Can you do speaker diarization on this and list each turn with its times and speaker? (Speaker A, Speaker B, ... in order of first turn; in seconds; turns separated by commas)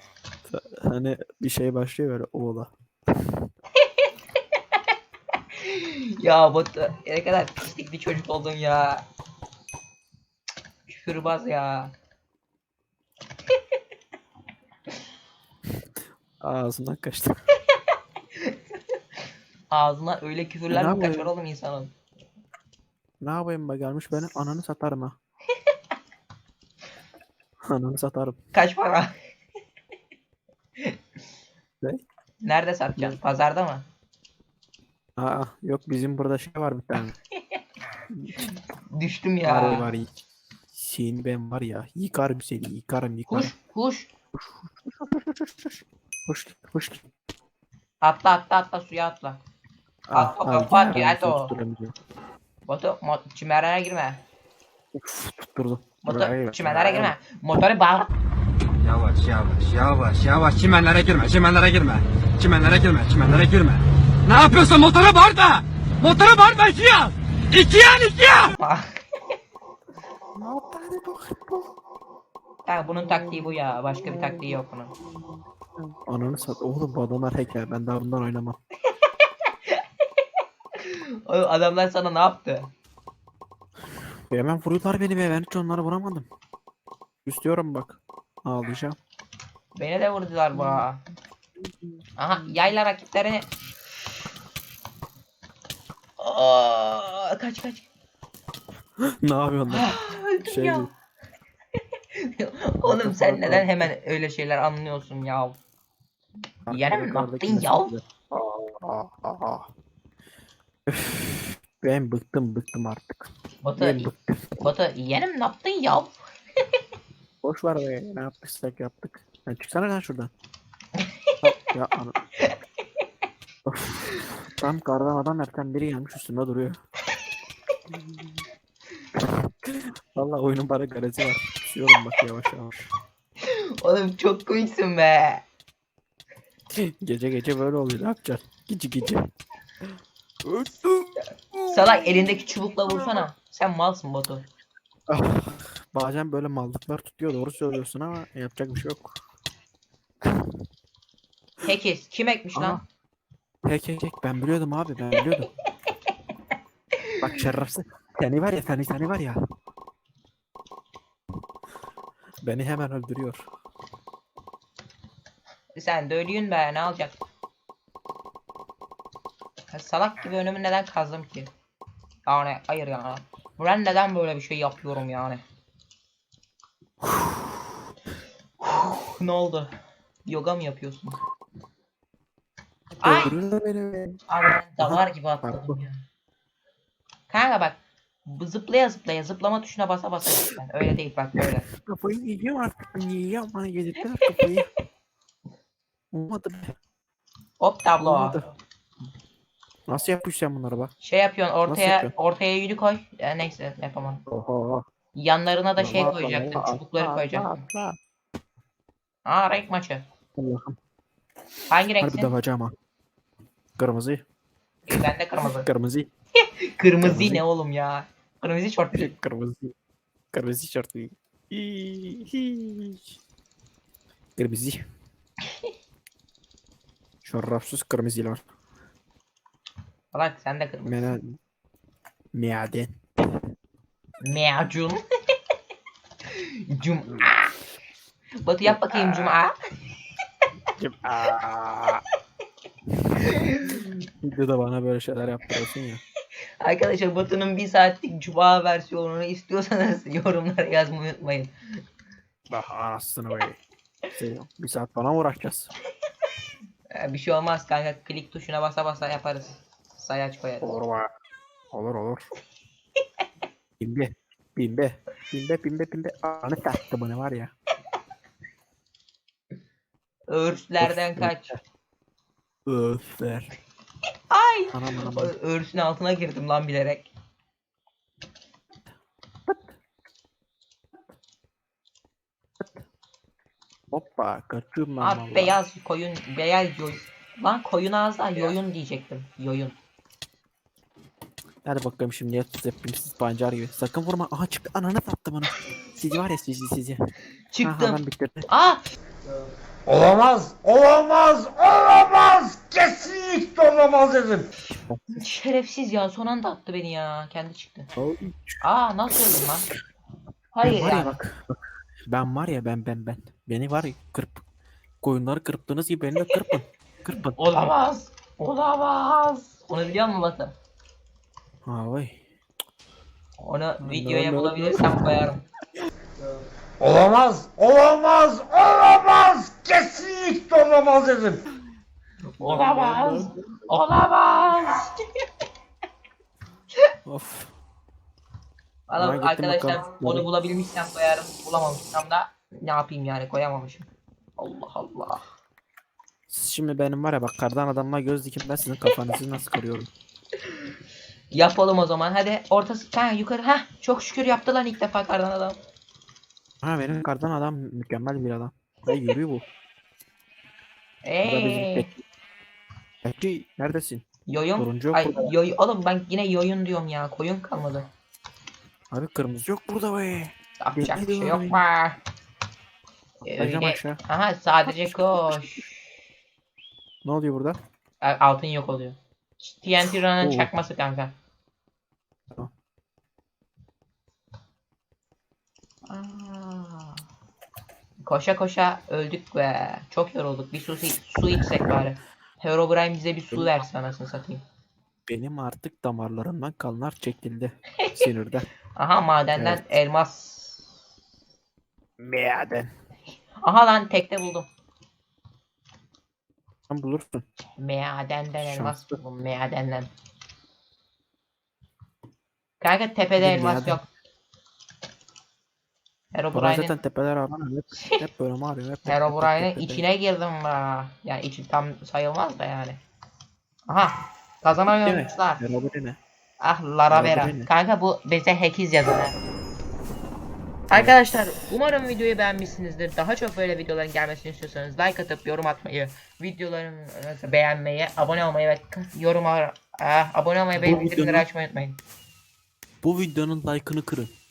Speaker A: 0.5-3.5, Speaker B: 5.6-9.0, Speaker B: 10.9-11.9, Speaker A: 16.4-17.4, Speaker B: 18.4-18.8, Speaker B: 19.7-21.9, Speaker A: 20.7-21.3, Speaker A: 23.2-25.2, Speaker A: 27.7-28.4, Speaker B: 28.5-29.1, Speaker B: 32.4-33.9, Speaker A: 35.2-37.2, Speaker B: 37.4-37.6, Speaker A: 38.1-38.5, Speaker B: 38.4-39.9, Speaker A: 39.4-40.2, Speaker A: 40.7-43.5, Speaker B: 43.3-44.1, Speaker A: 44.3-47.1, Speaker B: 48.0-49.4, Speaker A: 50.1-52.0, Speaker B: 50.1-51.5, Speaker B: 52.7-54.2, Speaker A: 54.9-57.2, Speaker B: 56.0-58.1, Speaker C: 58.8-68.5, Speaker B: 68.5-68.9, Speaker A: 70.4-71.7, Speaker B: 72.7-74.9, Speaker A: 72.9-78.6, Speaker B: 80.8-82.7, Speaker A: 84.3-86.3, Speaker A: 87.2-89.0, Speaker B: 89.8-91.0, Speaker A: 90.5-90.8, Speaker A: 91.7-92.7, Speaker B: 92.2-93.5, Speaker B: 96.2-97.9, Speaker A: 99.2-100.9, Speaker B: 99.7-100.9, Speaker B: 102.1-105.6, Speaker A: 102.8-103.9, Speaker A: 106.7-109.7, Speaker B: 106.7-107.9, Speaker A: 110.9-114.6, Speaker B: 113.6-116.2, Speaker A: 117.4-120.3, Speaker B: 121.0-121.3, Speaker A: 121.4-122.2, Speaker A: 123.7-126.8, Speaker A: 127.9-128.5, Speaker A: 129.1-132.9, Speaker B: 133.4-135.4, Speaker A: 136.7-139.3, Speaker A: 140.4-143.2, Speaker B: 141.7-144.5, Speaker A: 145.1-149.2, Speaker A: 150.2-150.5, Speaker B: 151.6-152.8, Speaker A: 152.6-152.8, Speaker A: 153.7-155.5, Speaker A: 157.2-159.4, Speaker A: 162.4-163.5, Speaker B: 165.8-167.2, Speaker B: 169.7-171.5, Speaker B: 172.3-175.4, Speaker A: 177.0-177.7, Speaker B: 178.6-179.7, Speaker B: 180.3-181.2, Speaker A: 183.0-184.2, Speaker B: 183.0-183.4, Speaker B: 184.3-186.0, Speaker A: 184.8-185.8, Speaker B: 187.3-191.7, Speaker A: 191.4-194.7, Speaker A: 196.1-196.8, Speaker B: 197.6-198.4, Speaker A: 198.0-198.5, Speaker A: 199.9-200.9, Speaker B: 201.0-204.2, Speaker A: 201.7-202.1, Speaker A: 204.3-204.9, Speaker B: 205.2-207.7, Speaker A: 205.8-208.0, Speaker B: 209.2-210.1, Speaker A: 210.4-210.8, Speaker B: 211.7-212.3, Speaker A: 212.0-212.7, Speaker A: 213.8-214.2, Speaker B: 214.9-215.7, Speaker A: 214.9-216.1, Speaker B: 216.5-219.1, Speaker A: 217.0-217.4, Speaker A: 218.9-219.7, Speaker A: 220.3-223.2, Speaker A: 224.4-224.8, Speaker A: 227.2-228.4, Speaker B: 230.1-231.2, Speaker A: 230.8-231.4, Speaker A: 232.3-233.0, Speaker B: 234.2-235.0, Speaker B: 236.3-237.6, Speaker A: 237.1-237.3, Speaker B: 238.4-239.6, Speaker A: 238.7-239.4, Speaker A: 240.8-242.1, Speaker A: 242.9-246.0, Speaker B: 243.2-243.8, Speaker B: 246.6-251.8, Speaker A: 252.5-253.6, Speaker A: 254.2-255.7, Speaker B: 256.9-260.8, Speaker A: 260.6-261.1, Speaker A: 261.7-262.3, Speaker A: 263.8-267.5, Speaker B: 270.3-271.6, Speaker A: 270.8-271.6, Speaker A: 272.7-273.5, Speaker B: 274.3-277.1, Speaker A: 274.7-275.3, Speaker A: 279.5-279.8, Speaker A: 283.9-285.6, Speaker B: 285.0-289.8, Speaker A: 291.6-297.0, Speaker B: 297.5-298.8, Speaker A: 297.6-298.5, Speaker D: 299.9-304.5, Speaker A: 304.6-305.0, Speaker B: 305.1-307.9, Speaker A: 308.0-309.5, Speaker B: 308.6-309.7, Speaker B: 310.5-311.2, Speaker A: 310.6-311.6, Speaker A: 312.1-314.4, Speaker A: 315.0-317.4, Speaker B: 317.4-320.6, Speaker A: 321.6-322.2, Speaker B: 323.4-325.4, Speaker A: 323.8-325.2, Speaker D: 326.8-331.4, Speaker B: 332.3-335.0, Speaker A: 332.4-333.7, Speaker A: 337.1-337.5, Speaker B: 338.9-343.9, Speaker A: 339.0-340.3, Speaker B: 344.4-345.3, Speaker A: 346.3-349.9, Speaker B: 351.3-355.6, Speaker A: 356.6-359.5, Speaker B: 361.0-361.9, Speaker A: 361.2-362.0, Speaker A: 363.0-364.1, Speaker B: 364.3-367.9, Speaker A: 364.6-365.3, Speaker A: 368.9-371.6, Speaker B: 370.6-372.0, Speaker B: 373.2-375.9, Speaker A: 373.3-374.0, Speaker A: 374.7-375.6, Speaker A: 377.0-377.6, Speaker B: 378.0-381.1, Speaker A: 380.2-380.5, Speaker B: 385.9-387.1, Speaker B: 388.0-394.4, Speaker A: 395.1-398.5, Speaker B: 397.8-398.1, Speaker B: 398.8-400.7, Speaker A: 399.4-399.8, Speaker A: 402.0-402.7, Speaker B: 403.4-404.5, Speaker A: 406.7-407.2, Speaker B: 407.6-409.9, Speaker A: 408.4-409.0, Speaker B: 412.6-413.9, Speaker A: 413.2-413.8, Speaker B: 416.1-416.8, Speaker A: 416.3-419.8, Speaker B: 418.9-422.8, Speaker B: 423.7-425.4, Speaker A: 424.8-426.0, Speaker B: 426.4-429.2, Speaker A: 426.9-427.5, Speaker A: 430.7-431.0, Speaker B: 430.7-441.8, Speaker A: 440.6-441.3, Speaker A: 442.8-444.1